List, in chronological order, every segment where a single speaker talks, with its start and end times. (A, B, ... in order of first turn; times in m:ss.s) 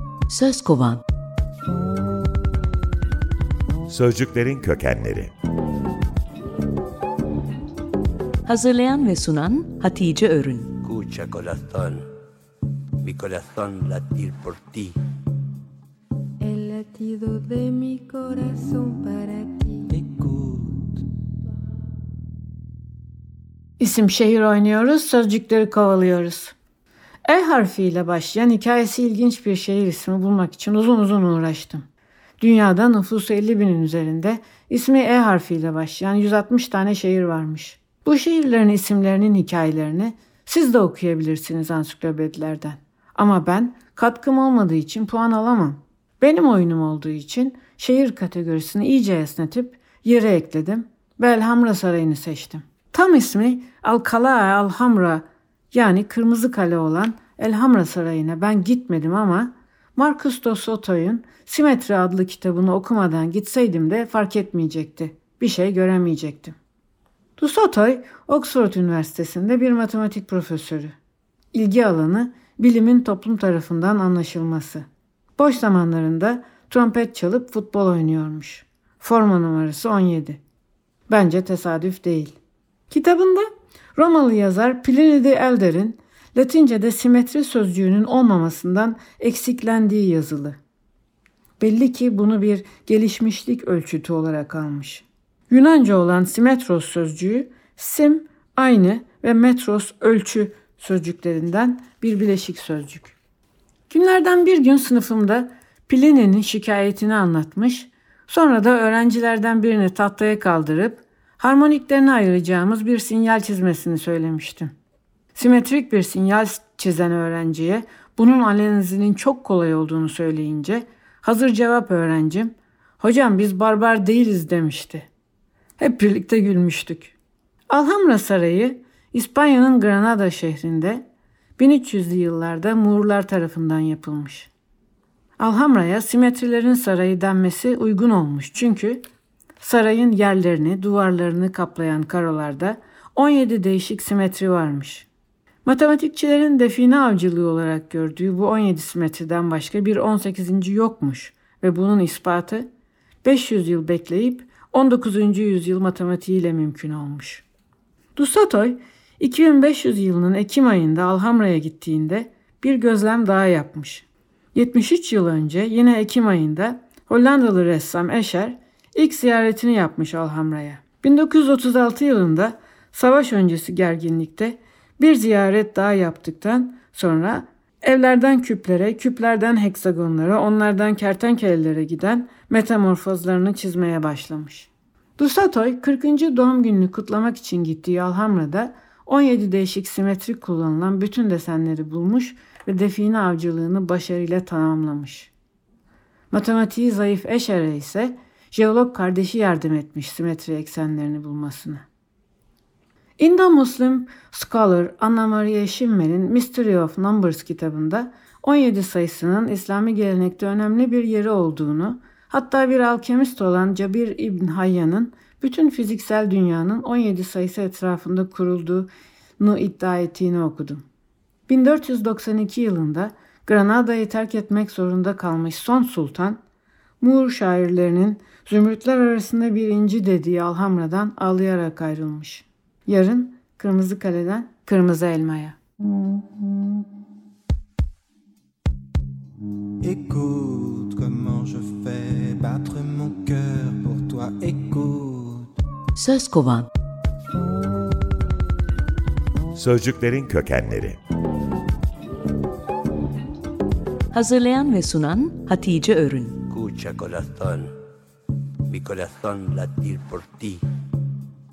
0:00.3-0:01.0 A
0:03.9-0:05.3 B
0:08.5-0:10.8 A
0:10.8-0:12.1 C
0:13.0-0:15.0 C
0:16.5-0:19.8 D
0:19.9-0:21.0 E
0:23.8-0:26.6 F
0:27.3-0:31.9 F
0:32.4-1:06.6 F
1:07.4-1:11.0 F
1:11.5-1:14.9 F
1:15.4-1:20.4 F
1:21.1-1:22.4 F
1:22.9-1:30.6 F
1:31.6-1:43.1 F
1:43.9-1:54.7 F
1:55.3-2:05.1 F
2:05.8-2:07.1 F
2:07.7-2:11.0 F
2:11.6-2:14.5 F
2:15.4-2:19.0 F
2:19.6-2:25.1 F
2:25.6-2:32.7 F
2:33.2-2:37.4 F
2:38.2-3:15.3 F
3:16.3-3:21.8 F
3:23.2-3:40.8 F
3:41.5-3:46.4 F
3:47.0-3:55.6 F
3:59.8-4:05.5 E
4:05.9-4:06.7 A
4:09.5-4:11.0 B
4:14.1-4:16.4 A
4:16.4-4:17.7 C
4:18.7-4:20.6 C